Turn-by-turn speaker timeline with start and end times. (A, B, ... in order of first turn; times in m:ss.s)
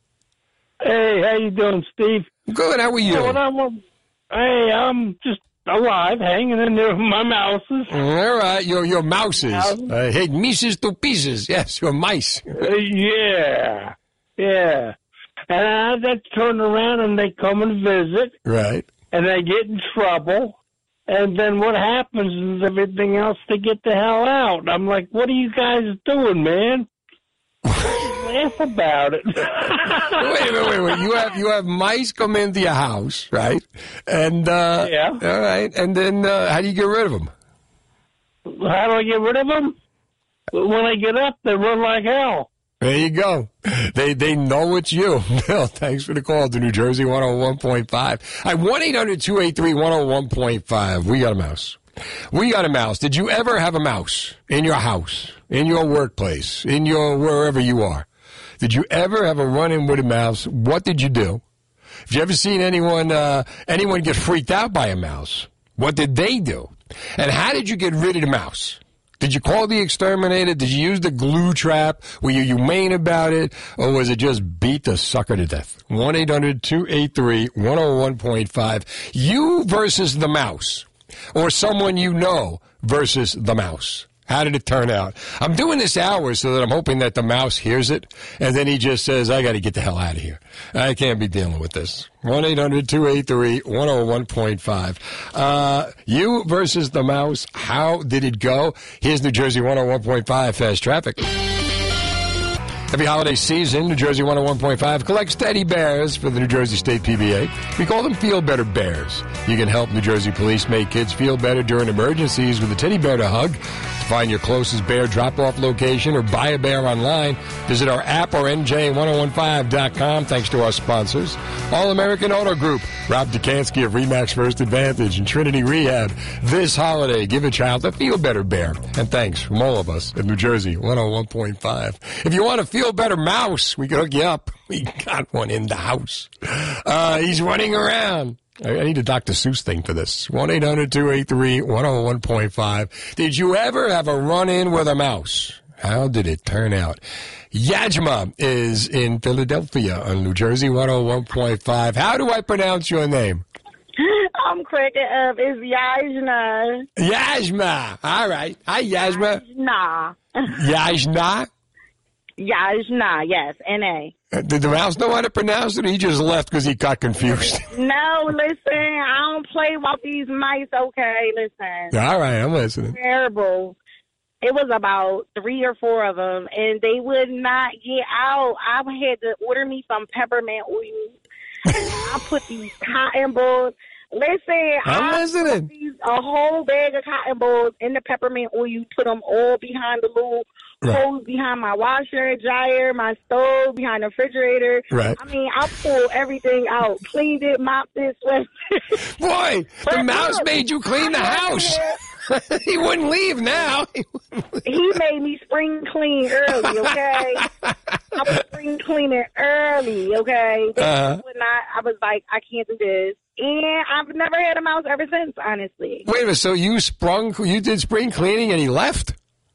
0:00.8-0:02.3 A
0:02.5-0:03.4 B
0:03.0-0:07.9 A
0:07.9-0:12.6 B
0:09.4-0:09.9 A
0:12.6-0:15.0 A
0:15.5-0:18.4 A
0:18.4-0:18.9 B
0:19.1-0:20.6 A
0:21.1-0:26.9 A
0:27.8-0:30.3 A
0:30.2-0:37.3 B
0:34.8-0:35.2 A
0:38.5-0:39.8 A
0:40.5-0:42.5 A
0:42.8-0:51.8 B
0:52.3-0:58.1 B
0:58.6-1:01.4 B
1:02.1-1:41.3 B
1:42.9-2:33.4 B
2:34.0-2:36.9 C
2:37.0-2:39.4 B
2:39.1-2:40.5 C
2:40.5-2:41.5 B
2:42.4-2:44.1 C
2:44.3-2:47.7 B
2:47.7-2:51.9 C
2:51.9-2:53.0 B
2:52.9-2:53.8 C
2:54.4-3:01.2 C
3:01.7-3:19.0 C
3:04.8-3:05.7 B
3:14.9-3:15.2 B
3:19.0-3:24.8 B
3:19.9-3:22.0 C
3:24.6-3:27.5 C
3:26.5-3:27.7 B
3:28.1-3:36.0 C
3:30.8-3:31.2 B
3:36.0-3:39.2 B